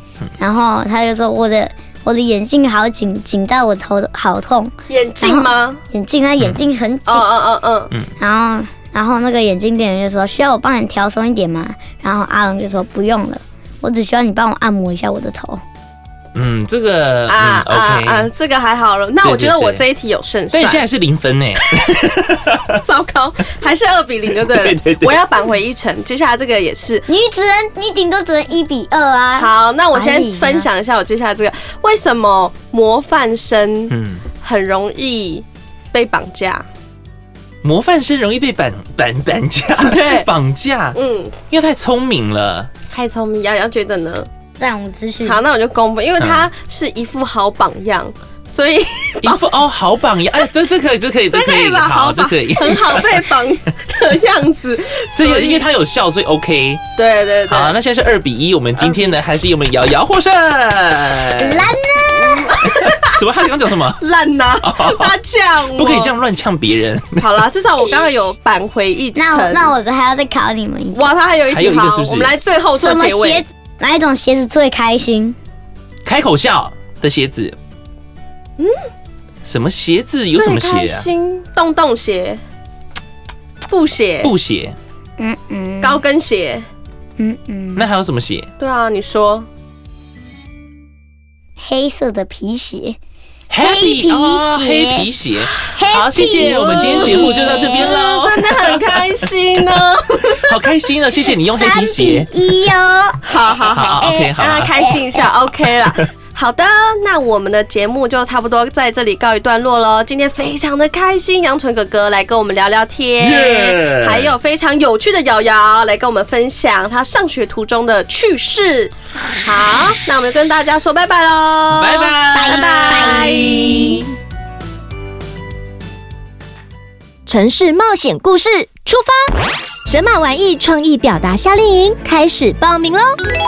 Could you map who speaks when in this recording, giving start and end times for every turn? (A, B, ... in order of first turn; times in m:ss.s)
0:00.4-0:07.3 A
0:04.9-0:05.8 B
0:07.1-0:07.9 B
0:08.2-0:15.6 A
0:16.3-0:18.3 C
0:17.3-0:20.9 B
0:19.2-0:19.8 C
0:20.5-0:22.8 C
0:22.8-0:27.1 B
0:24.4-0:25.2 C
0:27.1-0:30.7 A
0:29.4-0:36.7 B
0:33.9-0:34.2 C
0:37.6-0:41.0 C
0:39.8-0:40.3 B
0:40.9-0:41.3 B
0:41.5-0:42.7 C
0:42.9-0:44.3 B
0:44.6-0:45.4 A
0:45.2-0:49.4 B
0:46.2-0:46.5 C
0:49.2-0:53.2 C
0:51.3-0:55.6 B
0:55.2-0:56.8 C
0:57.0-0:57.8 B
0:57.5-1:01.8 C
0:58.8-0:59.2 B
1:01.4-1:02.7 A
1:02.6-1:03.0 B
1:02.7-1:04.0 C
1:04.0-1:06.1 B
1:04.6-1:05.2 C
1:05.7-1:07.2 C
1:07.2-1:09.7 B
1:09.2-1:11.1 A
1:10.9-1:13.4 B
1:11.5-1:12.3 C
1:12.7-1:15.4 A
1:16.0-1:17.6 C
1:19.4-1:21.1 C
1:20.3-1:22.4 B
1:23.7-1:24.3 B
1:24.2-1:24.8 C
1:25.2-1:26.0 A
1:25.8-1:26.7 B
1:27.2-1:27.9 A
1:27.8-1:28.5 C
1:28.6-1:29.5 B
1:31.6-1:33.0 A
1:33.5-1:39.1 C
1:33.6-1:35.1 A
1:35.6-1:37.9 A
1:36.3-1:40.4 B
1:40.4-1:42.3 C
1:41.3-1:43.2 A
1:43.2-2:04.0 B
1:43.7-1:44.7 C
1:44.0-1:44.3 A
1:53.2-1:54.4 C
2:01.7-2:04.1 C
2:02.4-2:03.3 A
2:07.3-2:09.2 D
2:09.9-2:13.1 D